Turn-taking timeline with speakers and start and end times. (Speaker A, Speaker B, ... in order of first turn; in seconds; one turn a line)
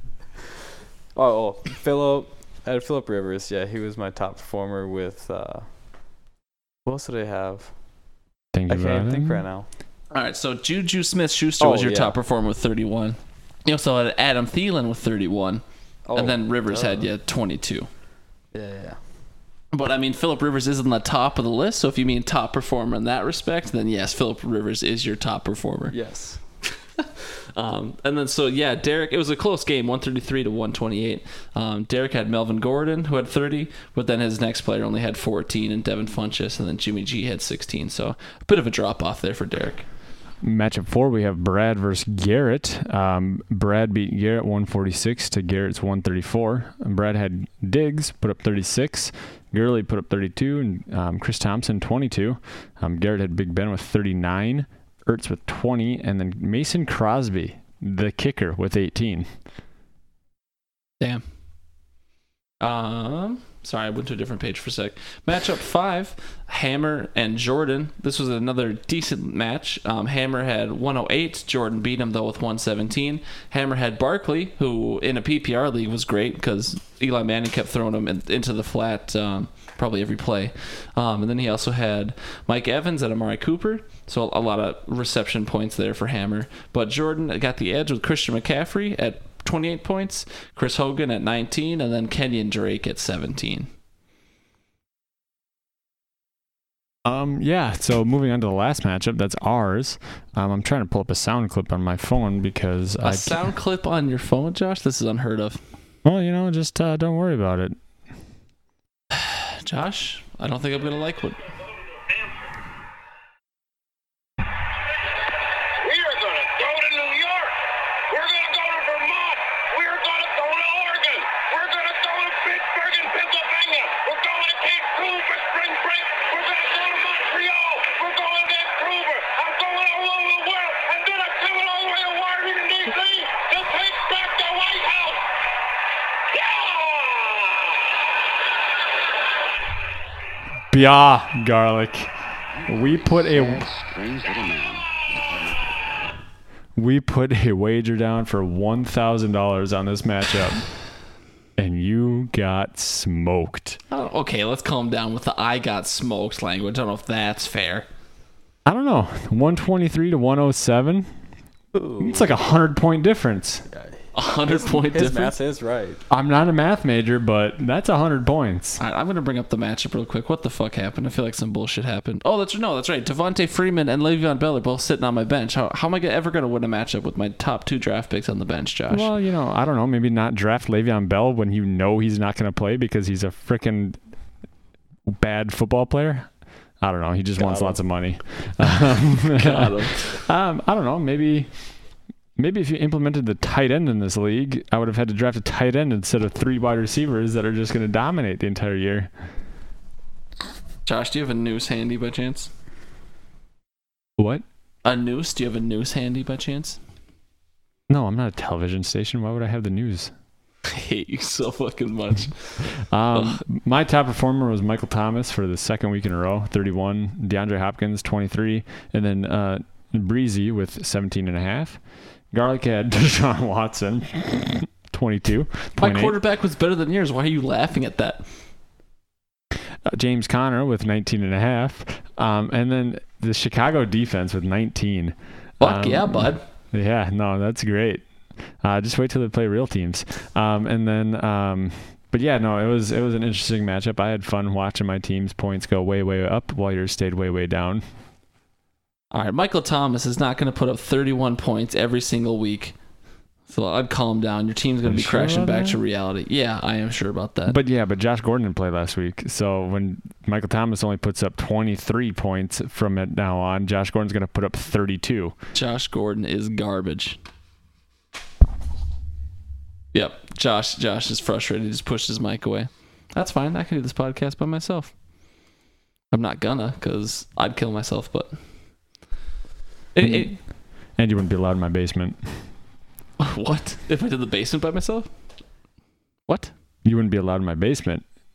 Speaker A: 1.1-5.7
Speaker A: 6.8-7.7
Speaker B: 8.5-9.5
Speaker A: 8.7-9.7
Speaker C: 10.1-15.6
Speaker A: 11.6-12.2
Speaker A: 16.1-17.1
Speaker C: 16.1-17.9
Speaker A: 18.5-19.0
Speaker C: 19.7-25.9
Speaker A: 25.9-26.4
Speaker C: 27.0-39.9
Speaker B: 40.4-59.3
Speaker C: 62.6-93.7
Speaker B: 97.0-103.4
Speaker C: 103.0-105.6
Speaker B: 106.0-107.8
Speaker C: 109.1-111.4
Speaker D: 115.8-117.5
Speaker D: 118.1-135.2
Speaker D: 136.3-137.7
Speaker B: 140.7-142.1
Speaker B: 142.6-143.7
Speaker E: 143.5-145.4
Speaker B: 146.8-150.7
Speaker B: 151.6-153.8
Speaker C: 153.9-157.9
Speaker B: 158.7-161.1
Speaker A: 161.7-162.3
Speaker B: 162.0-163.7
Speaker C: 164.1-165.3
Speaker A: 164.5-166.0
Speaker B: 166.1-168.8
Speaker C: 168.8-179.1
Speaker B: 178.9-184.0
Speaker B: 185.1-186.3
Speaker B: 186.8-191.5
Speaker C: 189.3-190.2
Speaker B: 192.4-199.1
Speaker C: 200.9-202.5
Speaker B: 204.2-204.4
Speaker C: 204.8-206.8
Speaker B: 207.9-210.1
Speaker C: 210.7-213.4
Speaker B: 212.8-221.8
Speaker B: 222.3-226.2
Speaker C: 225.8-228.2
Speaker B: 229.9-238.1
Speaker C: 235.6-236.4
Speaker B: 238.6-247.8
Speaker C: 249.1-252.8
Speaker C: 253.5-257.6
Speaker B: 254.8-255.8
Speaker B: 257.5-265.4
Speaker C: 265.5-267.2
Speaker C: 269.9-274.9
Speaker C: 276.1-278.3
Speaker C: 279.9-280.3
Speaker B: 280.0-280.4
Speaker B: 281.0-282.5
Speaker C: 283.2-285.1
Speaker C: 286.3-286.5
Speaker B: 286.8-288.0